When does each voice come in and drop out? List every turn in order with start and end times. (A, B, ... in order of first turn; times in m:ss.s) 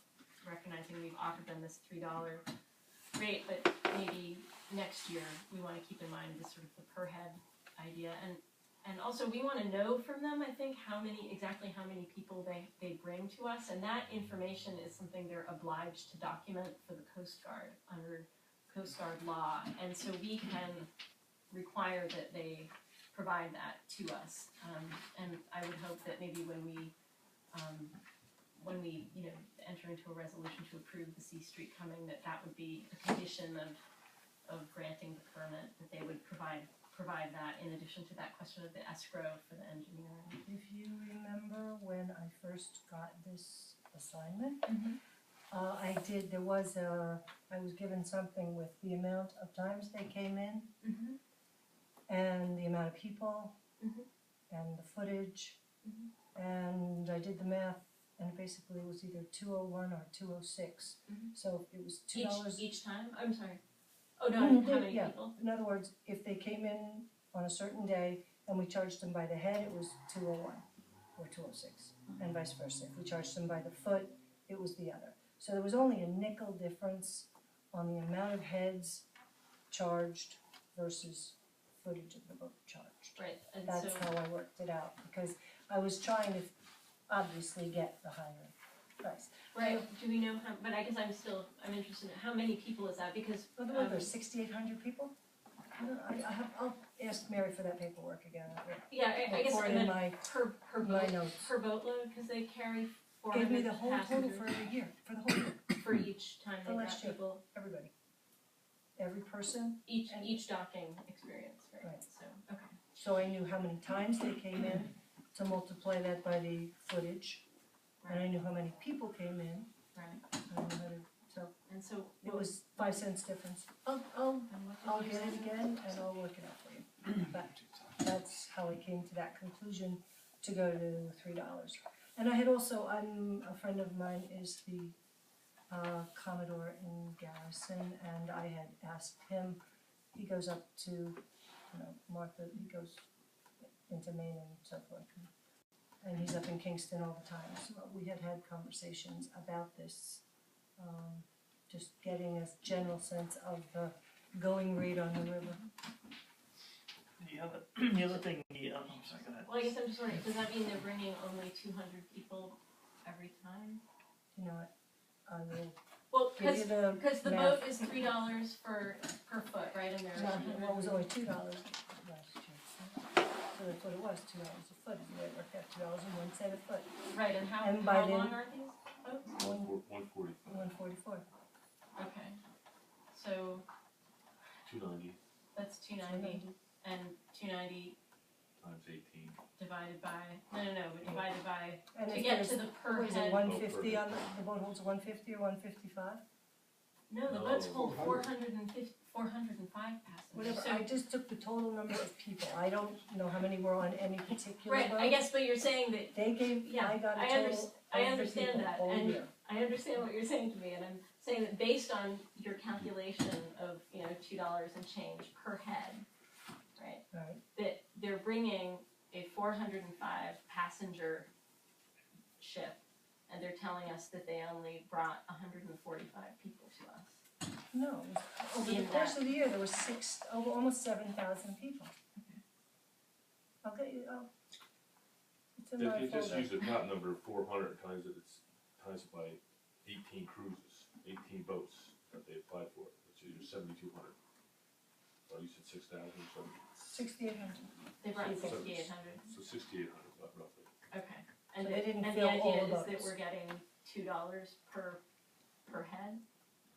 0:00.4-0:02.4 A
0:03.1-0:20.9 A
0:21.5-0:26.9 A
0:27.5-0:28.0 A
0:28.6-0:33.8 A
0:34.4-0:40.4 A
0:40.4-0:44.7 B
0:44.7-0:45.0 A
0:45.5-0:50.7 B
0:50.8-0:51.2 A
0:52.1-0:53.6 B
0:53.8-0:54.1 A
0:54.5-0:55.6 B
0:55.8-0:56.1 A
0:56.4-1:02.7 B
1:02.1-1:03.6 A
1:04.2-1:05.3 A
1:04.3-1:19.1 B
1:19.7-1:26.5 B
1:23.2-1:24.1 A
1:27.1-1:29.9 B
1:29.5-1:34.1 A
1:33.6-1:35.2 B
1:35.7-1:41.5 B
1:38.9-1:44.6 A
1:43.3-1:45.6 B
1:45.7-1:47.4 A
1:46.6-1:47.9 B
1:49.0-1:50.4 B
1:49.9-1:52.7 A
1:53.0-1:57.4 B
1:58.0-1:58.3 A
1:58.1-1:59.7 B
1:59.9-2:00.2 A
2:00.5-2:01.5 B
2:01.7-2:03.0 A
2:02.2-2:15.0 B
2:04.5-2:05.6 A
2:15.7-2:19.6 B
2:20.1-2:23.1 B
2:23.9-2:25.3 B
2:26.0-2:30.2 B
2:30.8-2:35.6 B
2:37.2-2:39.7 C
2:39.4-2:43.8 A
2:44.3-2:44.7 B
2:45.3-2:45.8 B
2:46.1-2:51.1 A
2:46.4-2:47.9 B
2:50.1-2:56.9 B
2:57.1-2:59.4 A
2:57.6-2:58.4 B
2:59.4-2:59.7 B
2:59.4-3:00.8 D
3:00.5-3:01.2 B
3:02.0-3:02.4 A
3:03.1-3:03.7 A
3:04.6-3:05.2 D
3:05.5-3:08.0 A
3:06.0-3:06.6 B
3:08.6-3:09.4 D
3:09.6-3:13.5 A
3:11.9-3:16.2 B
3:13.4-3:14.2 D
3:17.1-3:20.9 A
3:17.3-3:18.3 D
3:20.3-3:25.2 B
3:24.7-3:36.1 A
3:26.1-3:29.3 B
3:36.8-3:37.0 A
3:37.1-3:37.4 B
3:37.5-3:41.3 A
3:42.4-3:47.2 A
3:47.7-3:51.9 B
3:48.6-3:49.2 A
3:52.2-3:52.4 A
3:53.6-3:54.3 B
3:55.6-3:56.6 B
3:55.8-4:04.2 D
4:05.3-4:07.0 D
4:06.9-4:08.7 B
4:08.0-4:09.4 A
4:08.2-4:10.7 D
4:10.9-4:15.0 A
4:11.6-4:13.1 B
4:15.7-4:16.2 A